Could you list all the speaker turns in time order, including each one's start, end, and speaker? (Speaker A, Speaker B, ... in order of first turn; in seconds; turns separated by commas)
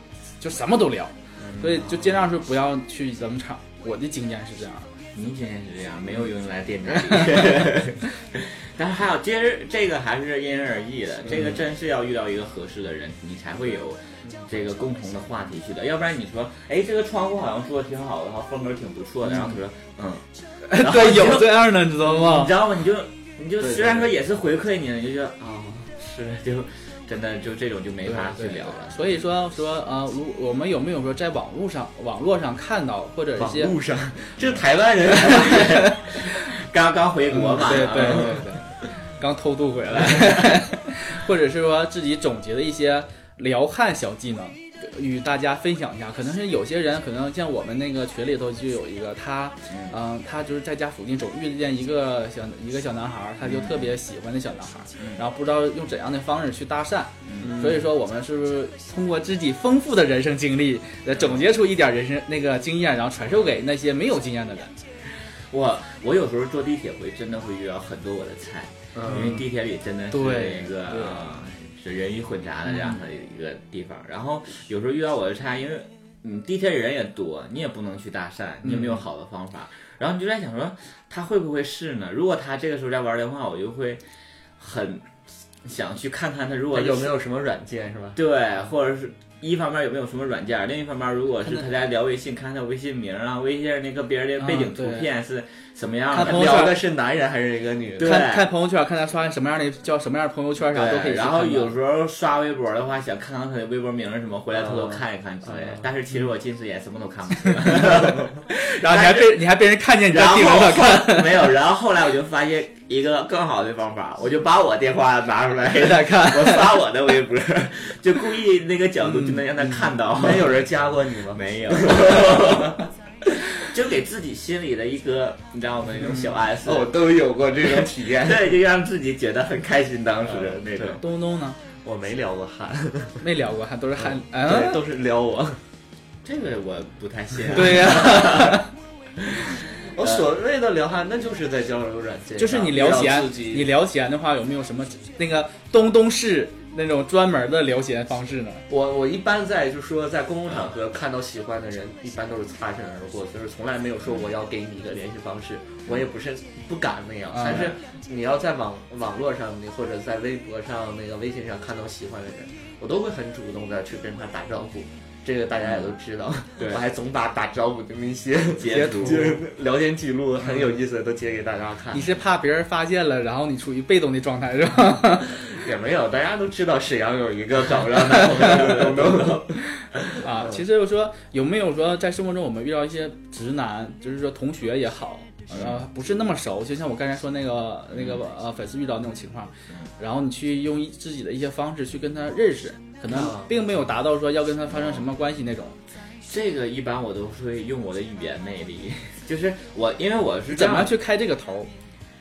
Speaker A: 0.4-4.9, Speaker B: 5.1-29.2, Speaker A: 7.1-7.5, Speaker A: 20.6-22.6, Speaker C: 23.7-24.1, Speaker A: 28.1-33.7, Speaker C: 33.4-35.9, Speaker B: 35.1-38.4, Speaker A: 35.4-36.0, Speaker A: 37.3-64.8, Speaker C: 37.7-38.4, Speaker B: 40.0-40.5, Speaker B: 49.7-50.0, Speaker B: 53.4-54.0, Speaker B: 55.0-55.2, Speaker B: 57.3-57.5, Speaker C: 57.4-57.8, Speaker B: 65.5-84.0, Speaker C: 69.0-69.4, Speaker A: 70.1-71.3, Speaker B: 84.6-85.1, Speaker B: 85.6-87.2, Speaker C: 86.7-88.2, Speaker B: 88.2-96.6, Speaker A: 94.4-95.1, Speaker A: 96.1-96.8, Speaker C: 96.2-98.2, Speaker B: 98.0-98.5, Speaker A: 98.0-101.7, Speaker B: 100.7-109.4, Speaker C: 104.6-105.9, Speaker A: 108.5-111.5, Speaker B: 110.0-120.6, Speaker A: 115.8-116.8, Speaker A: 119.0-119.5, Speaker C: 120.1-122.8, Speaker B: 121.3-127.0, Speaker C: 126.6-128.5, Speaker B: 127.6-131.0, Speaker C: 130.3-131.0, Speaker A: 131.0-131.6, Speaker C: 131.8-133.2, Speaker A: 133.2-134.8, Speaker C: 134.0-135.6, Speaker B: 136.2-138.6, Speaker A: 137.5-138.7, Speaker B: 139.3-140.2, Speaker C: 139.9-143.7, Speaker A: 142.4-148.7, Speaker C: 148.7-172.1, Speaker B: 150.5-150.7, Speaker A: 157.3-157.8, Speaker B: 157.5-157.8, Speaker B: 165.7-165.9, Speaker B: 166.6-166.8, Speaker B: 168.5-169.4, Speaker A: 168.7-169.4, Speaker A: 171.9-175.4, Speaker C: 175.4-180.6, Speaker B: 178.4-179.4, Speaker A: 179.8-195.8, Speaker B: 185.5-185.8, Speaker C: 193.2-193.5, Speaker B: 194.7-195.0, Speaker B: 196.3-200.9, Speaker A: 200.5-201.7